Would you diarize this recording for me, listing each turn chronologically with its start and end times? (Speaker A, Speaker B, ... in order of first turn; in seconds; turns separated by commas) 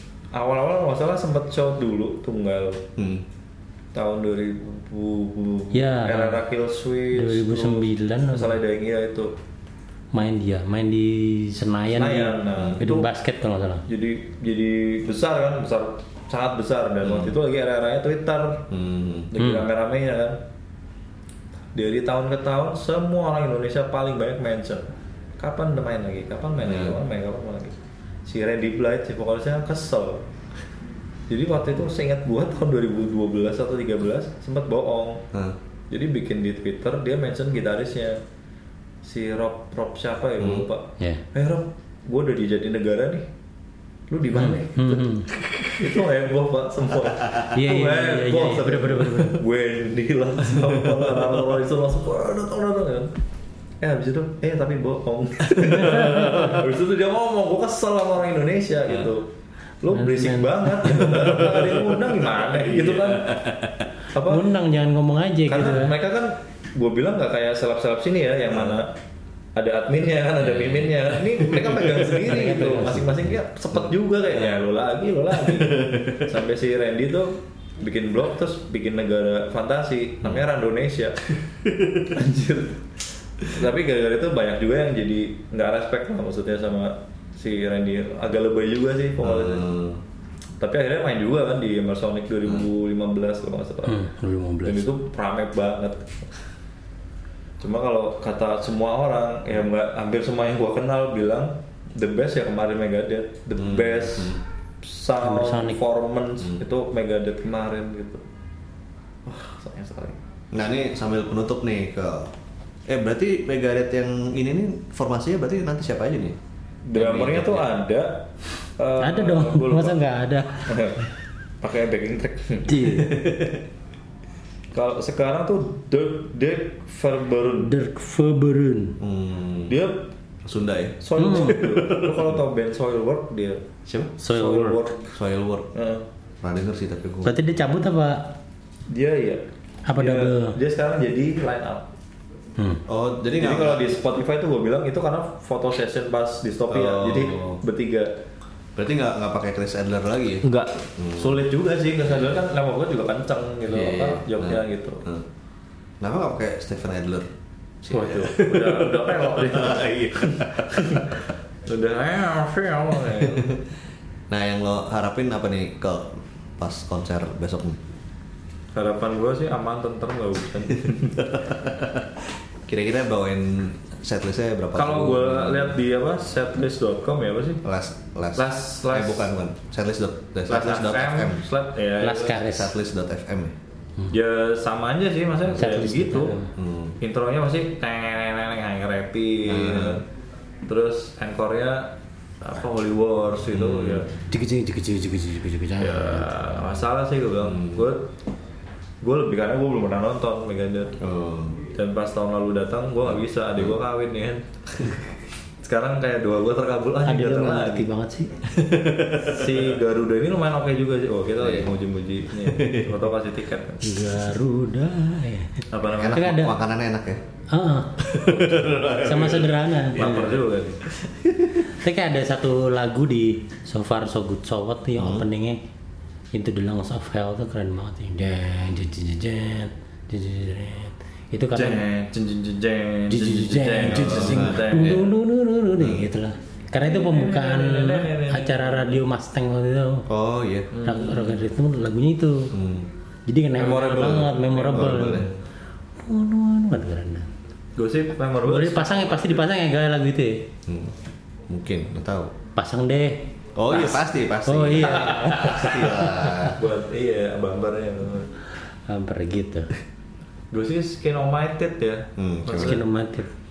Speaker A: 0.3-2.8, Speaker B: 3.0-3.2, Speaker A: 3.9-9.3, Speaker C: 5.7-6.4, Speaker C: 7.1-8.5, Speaker C: 10.1-13.8, Speaker A: 11.9-13.1, Speaker A: 13.9-18.7, Speaker B: 17.0-17.4, Speaker B: 18.7-19.3, Speaker A: 19.3-20.4, Speaker C: 19.4-19.6, Speaker A: 21.7-30.2, Speaker B: 26.6-27.0, Speaker A: 31.3-35.2, Speaker A: 35.9-38.2, Speaker A: 39.0-43.2, Speaker B: 40.4-40.7, Speaker A: 44.1-53.1, Speaker C: 44.3-45.3, Speaker C: 47.5-49.4, Speaker A: 53.8-59.3, Speaker C: 55.7-56.5, Speaker A: 59.8-63.3, Speaker C: 59.9-61.4, Speaker B: 61.6-63.9, Speaker A: 64.1-64.4, Speaker C: 64.2-65.9, Speaker A: 65.5-68.9, Speaker B: 68.5-68.8, Speaker A: 69.5-81.2, Speaker B: 70.4-70.9, Speaker C: 72.0-73.3, Speaker B: 73.7-74.6, Speaker B: 75.4-76.3, Speaker A: 82.0-82.8, Speaker A: 83.4-89.7, Speaker B: 89.2-90.0, Speaker A: 90.6-94.0, Speaker C: 93.8-94.8, Speaker A: 94.6-96.3, Speaker A: 97.6-108.2, Speaker B: 103.6-104.4, Speaker C: 105.2-105.8, Speaker A: 109.2-110.2, Speaker B: 110.5-112.3, Speaker B: 112.9-116.4, Speaker A: 116.8-120.0, Speaker B: 117.0-117.7, Speaker C: 119.0-120.8, Speaker A: 120.6-121.0, Speaker A: 121.6-123.3, Speaker C: 122.7-123.2, Speaker B: 123.1-123.5, Speaker A: 124.7-127.7, Speaker C: 127.6-129.0, Speaker B: 129.0-129.8, Speaker A: 129.7-130.1, Speaker B: 130.4-132.4, Speaker A: 131.0-133.6, Speaker C: 131.1-131.6, Speaker B: 133.8-134.1, Speaker C: 134.2-134.8, Speaker A: 134.3-135.1, Speaker B: 135.1-135.7, Speaker A: 135.7-136.0, Speaker B: 136.4-137.3, Speaker C: 137.2-138.4, Speaker A: 138.9-139.4, Speaker C: 139.8-140.6, Speaker A: 139.9-141.9, Speaker B: 142.8-144.0, Speaker A: 143.4-148.1, Speaker B: 146.7-147.6, Speaker B: 148.8-151.4, Speaker A: 150.4-155.0, Speaker B: 152.1-152.4, Speaker B: 153.7-155.2, Speaker B: 156.0-157.3, Speaker B: 157.8-161.0, Speaker A: 157.9-161.1, Speaker A: 161.7-163.5, Speaker B: 163.2-163.6, Speaker B: 164.3-167.8, Speaker A: 168.7-171.4, Speaker B: 171.3-172.1, Speaker B: 172.7-175.8, Speaker A: 174.7-177.6, Speaker B: 177.6-181.5, Speaker A: 178.3-179.3, Speaker A: 180.5-182.4, Speaker C: 182.0-182.7, Speaker B: 182.3-183.5, Speaker A: 184.1-186.4, Speaker C: 185.6-186.5, Speaker B: 186.5-186.9, Speaker A: 187.0-190.0, Speaker B: 189.4-190.0, Speaker A: 190.7-194.1, Speaker B: 193.5-194.1, Speaker C: 194.3-196.6, Speaker A: 195.8-198.1, Speaker B: 197.4-197.8, Speaker A: 199.0-201.0, Speaker B: 201.0-201.6, Speaker A: 201.7-204.4, Speaker A: 205.6-207.9, Speaker C: 207.1-208.3, Speaker B: 208.5-209.7, Speaker A: 209.2-214.1, Speaker B: 211.4-211.7, Speaker B: 212.4-213.0, Speaker C: 213.8-216.5, Speaker A: 215.7-216.4, Speaker B: 215.9-217.2, Speaker C: 217.5-218.0, Speaker B: 218.0-219.4, Speaker A: 218.8-220.8, Speaker C: 219.0-220.4, Speaker B: 221.0-221.6, Speaker C: 221.7-225.6, Speaker B: 225.0-225.2, Speaker C: 226.3-231.8, Speaker A: 231.5-235.1, Speaker C: 233.1-240.1, Speaker B: 233.8-235.1, Speaker B: 235.7-236.1, Speaker A: 236.8-239.0, Speaker B: 240.1-240.7, Speaker A: 240.7-241.4, Speaker C: 240.8-242.5, Speaker B: 242.5-242.9, Speaker C: 243.3-245.3, Speaker A: 243.6-245.4, Speaker B: 244.7-245.3, Speaker C: 246.0-247.3, Speaker A: 247.8-249.4, Speaker C: 248.4-250.5, Speaker B: 250.7-250.9, Speaker B: 251.5-252.3, Speaker C: 252.5-256.5, Speaker B: 253.6-256.6, Speaker A: 254.8-258.3, Speaker C: 258.9-259.7, Speaker A: 260.5-262.8, Speaker B: 262.2-262.8, Speaker C: 262.5-263.3